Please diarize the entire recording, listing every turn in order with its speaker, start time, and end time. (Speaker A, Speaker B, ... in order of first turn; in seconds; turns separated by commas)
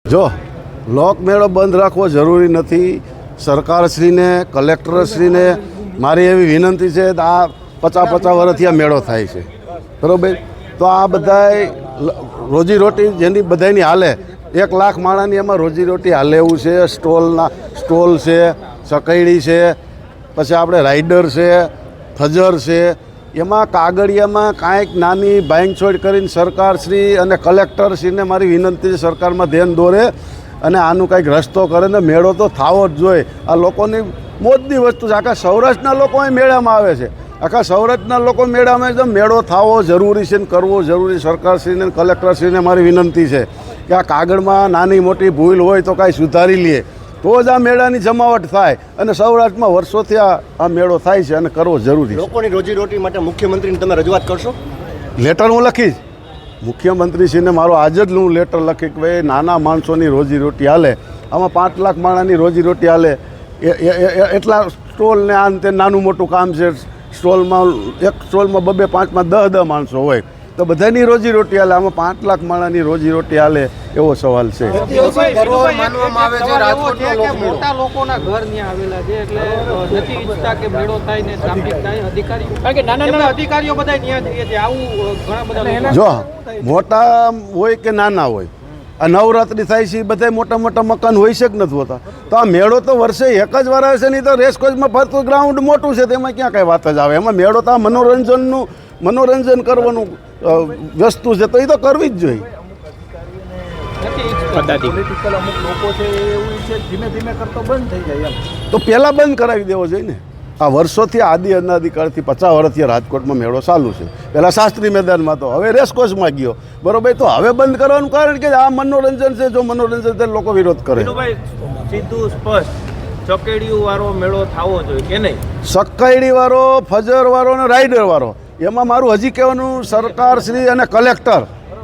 Speaker A: 0.1-0.3, Speaker A: 0.9-9.5, Speaker A: 10.0-19.8, Speaker A: 20.4-30.1, Speaker A: 30.6-52.3, Speaker B: 52.1-54.6, Speaker A: 55.2-56.0, Speaker A: 56.6-75.0, Speaker C: 74.8-86.0, Speaker D: 75.0-76.8, Speaker E: 75.3-77.6, Speaker A: 85.9-102.5, Speaker C: 104.0-104.9, Speaker D: 104.5-108.4, Speaker A: 108.7-121.2, Speaker E: 121.0-122.7, Speaker E: 123.2-125.4, Speaker A: 125.7-131.5